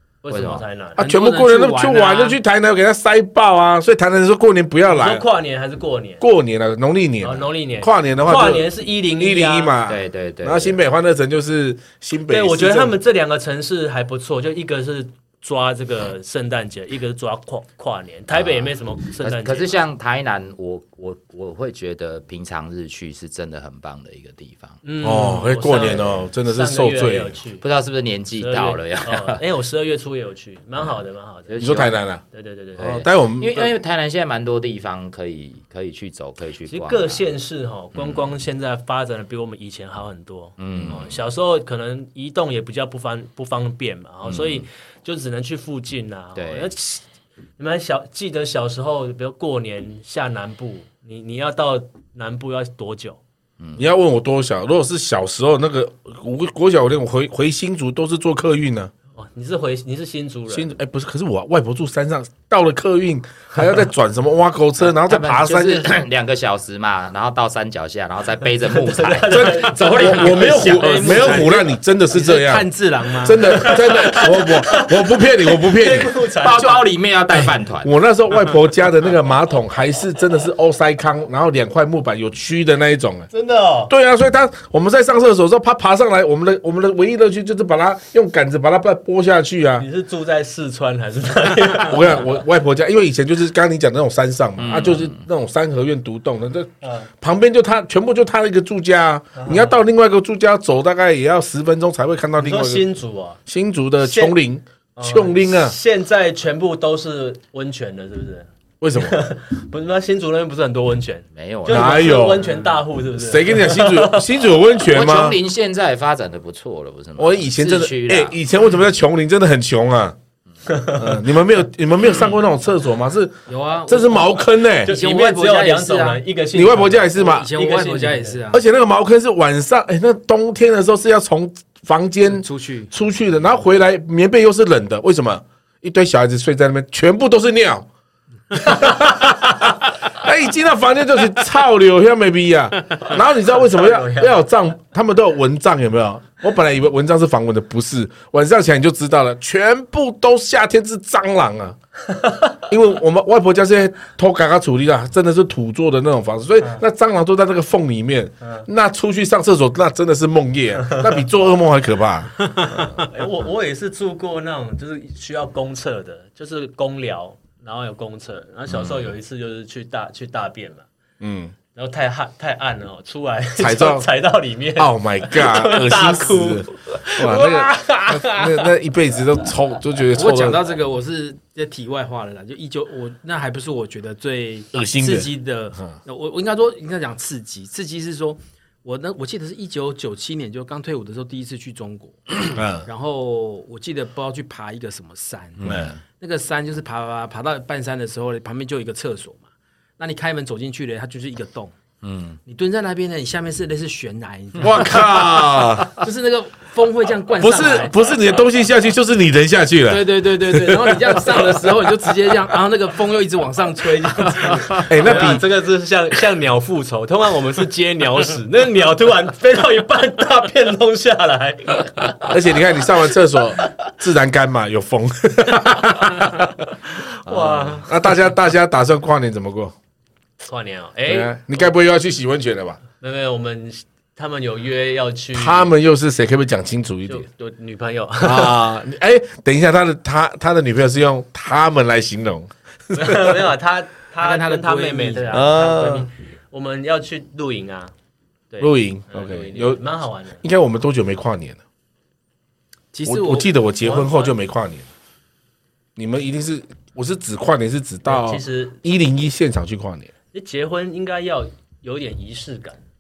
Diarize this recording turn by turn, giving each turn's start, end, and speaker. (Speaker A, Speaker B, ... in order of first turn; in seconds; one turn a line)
Speaker A: 0.2-1.0
Speaker B: 0.3-0.7
Speaker C: 1.0-2.4
Speaker D: 1.0-5.2
Speaker A: 4.9-6.2
Speaker D: 6.2-13.0
Speaker A: 7.2-9.7
Speaker B: 9.9-10.8
Speaker A: 12.3-19.8
Speaker B: 18.3-24.8
Speaker A: 24.8-27.6
Speaker D: 25.0-27.4
Speaker B: 27.6-29.4
Speaker A: 28.4-33.0
Speaker B: 30.8-32.0
Speaker D: 31.6-32.2
Speaker B: 32.8-37.2
Speaker D: 32.8-33.7
Speaker A: 36.7-47.0
Speaker B: 38.0-38.3
Speaker B: 40.6-41.2
Speaker B: 44.2-44.7
Speaker B: 46.4-46.7
Speaker A: 47.6-53.2
Speaker B: 53.6-53.8
Speaker D: 53.8-58.9
Speaker A: 59.2-60.7
Speaker D: 60.5-65.9
Speaker B: 64.8-71.4
Speaker A: 68.7-71.3
Speaker D: 69.3-72.7
Speaker C: 70.4-74.0
Speaker D: 73.2-76.1
Speaker A: 73.4-76.8
Speaker B: 76.3-77.9
Speaker D: 77.8-83.3
Speaker A: 83.3-83.9
Speaker D: 83.9-89.9
Speaker A: 89.8-92.4
Speaker D: 91.8-102.8
Speaker B: 94.6-95.2
Speaker A: 96.8-97.1
Speaker A: 99.4-99.8
Speaker A: 102.4-103.4
Speaker D: 103.5-105.8
Speaker A: 104.0-104.3
Speaker A: 105.0-114.5
Speaker D: 108.8-109.2
Speaker B: 111.3-112.4
Speaker D: 111.7-112.5
Speaker D: 113.2-115.4
Speaker B: 114.9-118.4
Speaker D: 117.2-120.2
Speaker A: 120.7-121.2
Speaker D: 120.9-123.4
Speaker C: 123.5-126.2
Speaker D: 123.9-124.9
Speaker A: 124.8-128.4
Speaker D: 126.5-127.5
Speaker C: 127.1-128.6
Speaker D: 128.5-137.9
Speaker C: 132.3-132.9
Speaker D: 138.5-151.8
Speaker A: 143.6-144.4
Speaker A: 152.1-152.5
Speaker D: 152.7-163.0
Speaker A: 162.7-170.8
Speaker B: 168.7-169.1
Speaker D: 171.2-171.6
Speaker A: 171.8-178.7
Speaker D: 173.6-174.1
Speaker D: 174.8-180.6
Speaker C: 180.1-195.7
Speaker D: 184.7-185.9
Speaker D: 192.5-192.9
Speaker B: 195.6-196.0
Speaker D: 195.6-196.0
Speaker C: 196.2-199.4
Speaker C: 200.0-201.7
Speaker B: 202.0-202.4
Speaker C: 202.5-205.2
Speaker D: 204.6-206.0
Speaker B: 204.7-205.8
Speaker C: 205.9-208.0
Speaker D: 207.4-211.9
Speaker C: 209.9-215.4
Speaker A: 214.7-222.4
Speaker D: 214.9-215.4
Speaker D: 222.3-226.5
Speaker A: 226.9-228.0
Speaker B: 227.3-227.8
Speaker D: 227.8-229.7
Speaker A: 230.4-231.7
Speaker D: 231.1-232.8
Speaker A: 233.0-235.7
Speaker D: 235.3-237.2
Speaker A: 237.1-238.6
Speaker D: 238.2-243.4
Speaker A: 242.9-247.9
Speaker C: 244.2-245.5
Speaker D: 245.3-246.1
Speaker A: 248.5-250.4
Speaker D: 248.6-249.8
Speaker D: 250.4-251.6
Speaker C: 252.9-253.5
Speaker D: 253.1-254.9
Speaker A: 253.8-254.3
Speaker D: 256.0-260.1
Speaker A: 258.1-258.8
Speaker A: 260.3-262.8